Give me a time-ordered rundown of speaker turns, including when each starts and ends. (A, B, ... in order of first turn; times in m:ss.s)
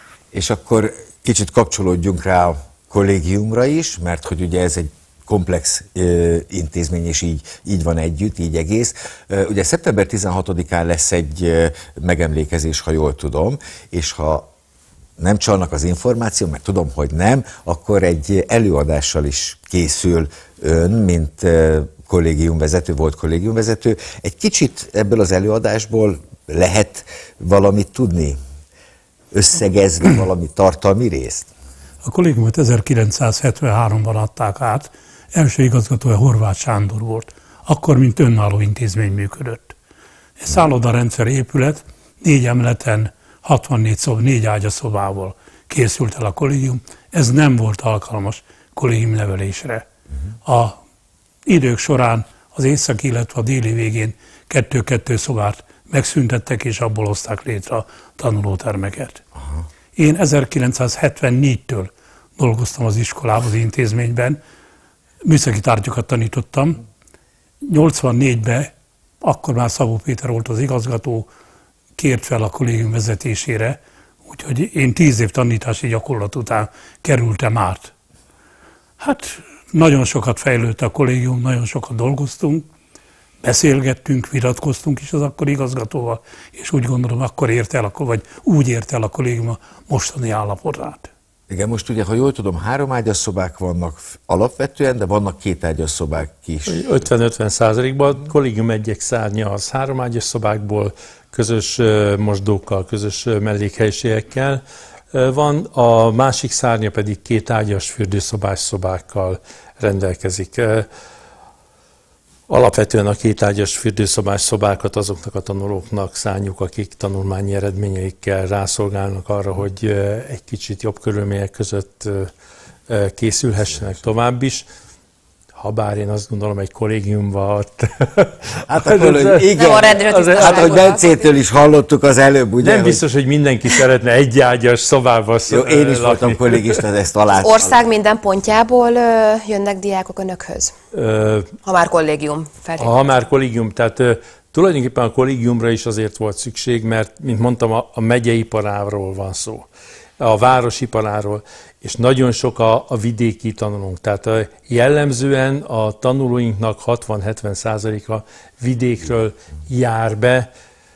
0:00.3-0:14.5 A
0:15.2-0:28.4 A
0:29.3-0:31.5 A
0:32.0-0:39.7 B
0:40.4-0:49.8 B
0:50.4-0:50.8 B
0:51.4-0:59.2 B
0:59.9-1:04.4 B
1:05.2-1:06.8 B
1:07.6-1:11.3 B
1:12.0-1:17.9 B
1:19.0-1:22.7 B
1:23.4-1:31.1 B
1:31.5-1:37.0 A
1:36.7-1:44.6 C
1:45.1-1:50.8 C
1:52.5-2:02.3 C
2:02.9-2:04.7 C
2:05.6-2:10.9 C
2:08.7-2:13.0 A
2:09.6-2:11.4 D
2:12.6-2:16.8 C
2:15.5-2:17.8 A
2:17.4-2:20.7 D
2:20.9-2:21.5 C
2:21.6-2:23.0 D
2:22.8-2:29.7 C
2:30.2-2:40.5 C